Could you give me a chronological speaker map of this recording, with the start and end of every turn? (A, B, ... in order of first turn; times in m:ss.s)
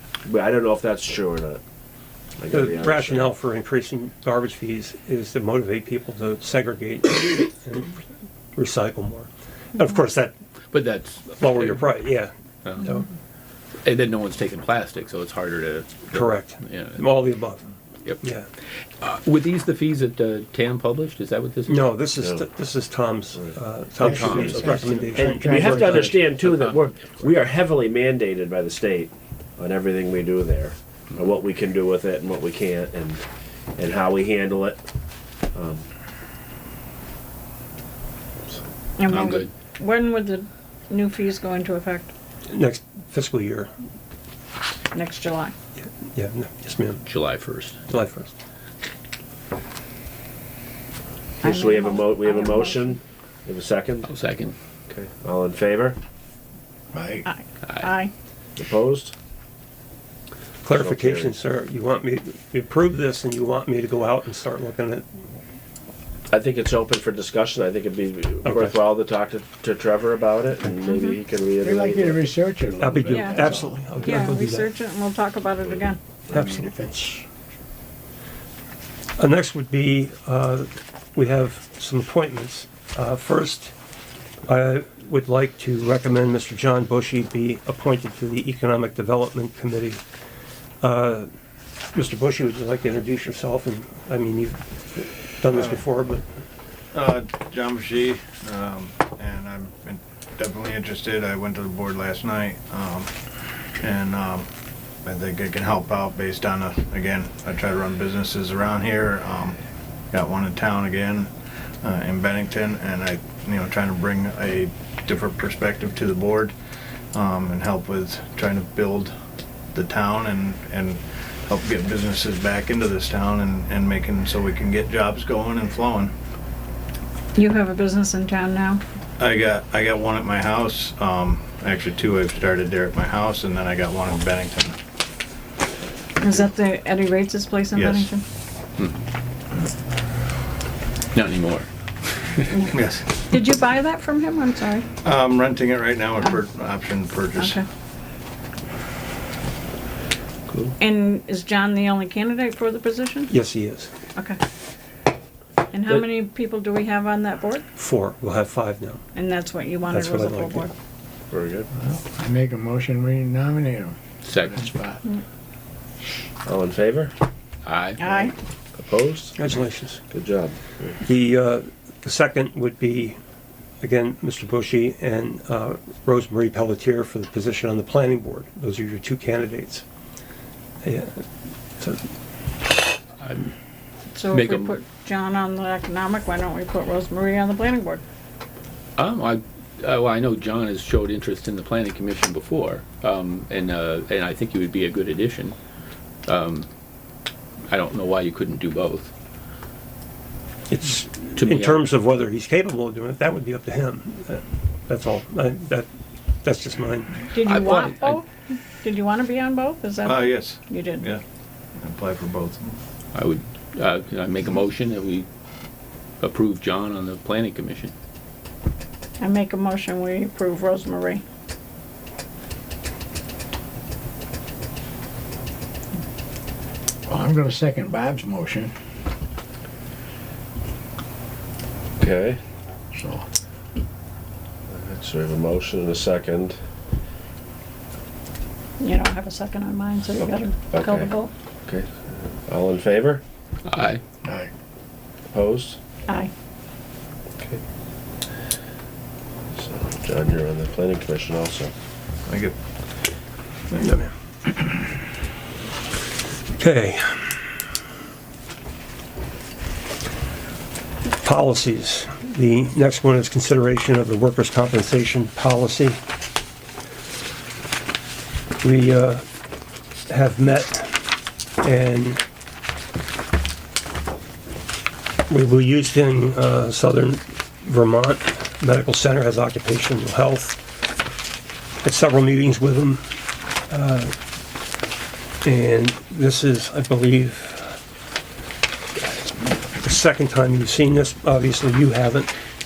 0:00.2-0:01.6 A
0:02.4-0:03.3 A
0:02.5-0:08.0 B
0:08.6-0:10.4 B
0:10.7-0:11.8 C
0:11.4-0:13.1 B
0:12.6-0:13.0 C
0:13.8-0:17.0 C
0:16.1-0:17.6 B
0:18.2-0:18.5 B
0:19.0-0:21.9 C
0:21.7-0:26.2 B
0:22.2-0:22.5 A
0:24.0-0:26.9 C
0:24.0-0:26.1 D
0:25.2-0:33.2 A
0:33.8-0:34.8 A
0:35.5-0:35.9 A
0:39.0-0:42.1 E
0:39.1-0:39.5 C
0:42.5-0:43.7 B
0:44.9-0:45.5 E
0:45.8-0:47.0 B
0:47.0-0:47.8 C
0:47.9-0:48.3 B
0:51.4-0:53.0 E
0:51.4-0:54.1 A
0:54.1-0:54.5 C
0:54.9-0:56.0 A
0:56.9-0:57.2 D
0:57.3-0:58.1 E
0:58.6-0:59.1 A
1:00.6-1:05.1 B
1:00.7-1:01.4 A
1:06.3-1:12.3 A
1:08.4-1:08.8 B
1:10.8-1:11.2 E
1:11.6-1:14.1 D
1:12.8-1:14.7 B
1:13.1-1:13.5 E
1:14.1-1:16.0 E
1:16.3-1:17.2 D
1:16.3-1:16.7 B
1:19.2-1:23.8 B
1:24.5-1:30.0 B
1:30.8-1:31.3 B
1:31.9-1:36.2 B
1:36.9-1:43.1 F
1:43.8-1:44.5 F
1:45.0-1:49.6 F
1:50.1-1:51.3 F
1:51.8-1:56.5 F
1:57.1-1:59.1 F
1:59.7-2:06.1 F
2:07.4-2:08.8 E
2:09.2-2:14.8 F
2:16.2-2:18.2 E
2:17.7-2:18.1 F
2:21.1-2:21.7 C
2:22.5-2:24.9 E
2:22.7-2:23.3 F
2:25.0-2:27.6 F
2:27.4-2:27.6 E
2:30.5-2:30.8 A
2:30.8-2:33.3 E
2:33.3-2:33.9 B
2:35.7-2:37.7 E
2:37.8-2:39.0 B
2:39.1-2:40.7 E
2:39.9-2:40.7 B
2:41.3-2:41.7 A
2:41.8-2:45.0 D
2:44.2-2:44.7 C
2:46.4-2:47.1 A
2:47.6-2:48.0 C
2:48.0-2:48.3 E
2:48.0-2:49.4 A
2:49.4-2:50.0 B
2:50.1-2:51.0 A
2:51.0-2:53.2 B
2:53.8-2:59.8 B
3:00.8-3:01.2 B
3:01.8-3:02.0 B
3:03.2-3:03.6 C
3:04.1-3:08.0 E
3:04.3-3:04.7 C
3:09.0-3:15.6 C
3:16.3-3:16.7 C
3:17.7-3:19.1 C
3:20.7-3:25.9 B
3:21.4-3:21.8 C
3:26.4-3:27.2 B
3:27.3-3:28.3 E
3:27.4-3:28.2 C
3:28.8-3:31.1 E
3:30.0-3:31.2 F
3:31.8-3:32.8 F
3:33.1-3:35.3 C
3:36.2-3:37.9 C
3:39.2-3:41.2 E
3:47.1-3:48.7 D
3:52.0-3:52.4 A
3:52.9-3:53.3 D
3:54.7-3:56.6 A
3:58.8-4:01.3 E
4:00.2-4:01.1 A
4:01.7-4:03.2 A
4:03.7-4:04.0 C
4:04.2-4:04.5 D
4:05.3-4:05.8 A
4:09.5-4:11.7 A
4:12.3-4:12.6 F
4:13.8-4:14.1 B
4:16.6-4:17.4 B
4:21.2-4:26.0 B
4:28.6-4:29.2 B
4:30.1-4:32.2 B
4:35.3-4:40.7 B
4:41.8-4:43.0 B
4:43.7-4:44.1 B
4:45.4-4:47.8 B
4:49.8-4:52.3 B